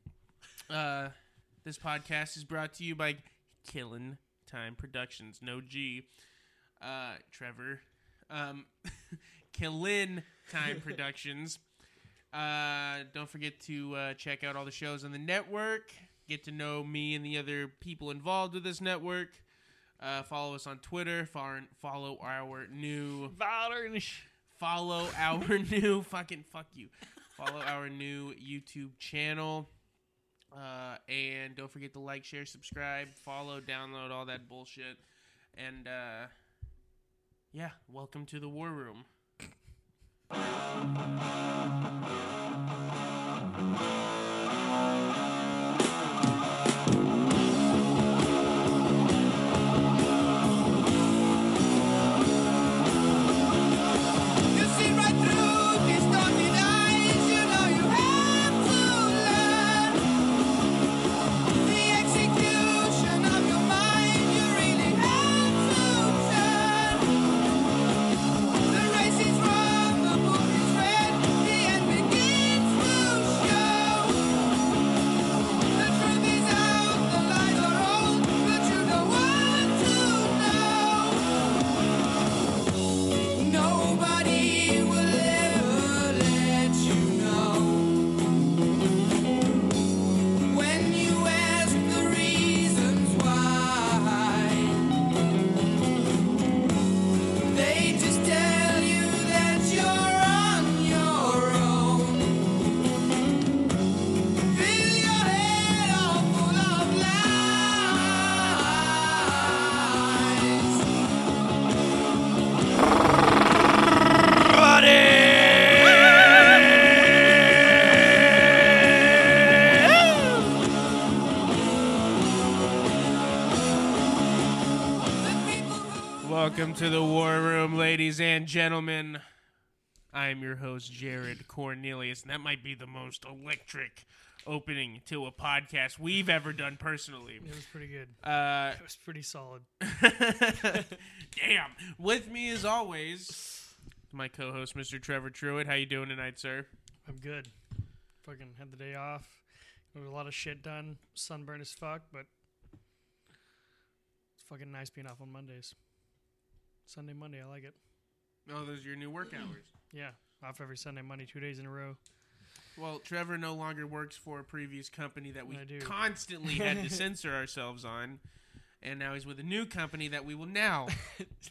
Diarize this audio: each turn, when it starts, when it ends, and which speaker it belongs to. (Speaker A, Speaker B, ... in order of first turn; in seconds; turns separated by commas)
Speaker A: 0.7-6.1, Speaker A: 6.8-11.6, Speaker A: 12.3-19.4, Speaker A: 20.0-23.3, Speaker B: 23.3-24.3, Speaker A: 24.5-29.7, Speaker A: 30.5-35.0, Speaker A: 35.5-36.3, Speaker A: 37.5-39.1, Speaker C: 54.5-60.1, Speaker C: 61.6-67.1, Speaker C: 68.7-74.4, Speaker C: 75.7-81.5, Speaker C: 83.3-88.1, Speaker C: 90.4-94.9, Speaker C: 97.4-102.5, Speaker C: 104.5-110.8, Speaker C: 125.4-125.8, Speaker A: 126.2-129.2, Speaker A: 130.1-137.5, Speaker B: 137.4-138.2, Speaker A: 138.2-138.8, Speaker B: 138.7-139.7, Speaker A: 139.8-143.4, Speaker A: 144.1-146.7, Speaker B: 147.1-147.5, Speaker B: 148.2-149.4, Speaker B: 149.9-152.3, Speaker B: 154.4-155.8, Speaker B: 156.9-157.8, Speaker A: 158.5-159.7, Speaker B: 159.9-162.0, Speaker A: 162.8-168.2, Speaker B: 165.5-165.9, Speaker B: 166.5-167.0, Speaker A: 168.8-171.0, Speaker B: 170.9-171.3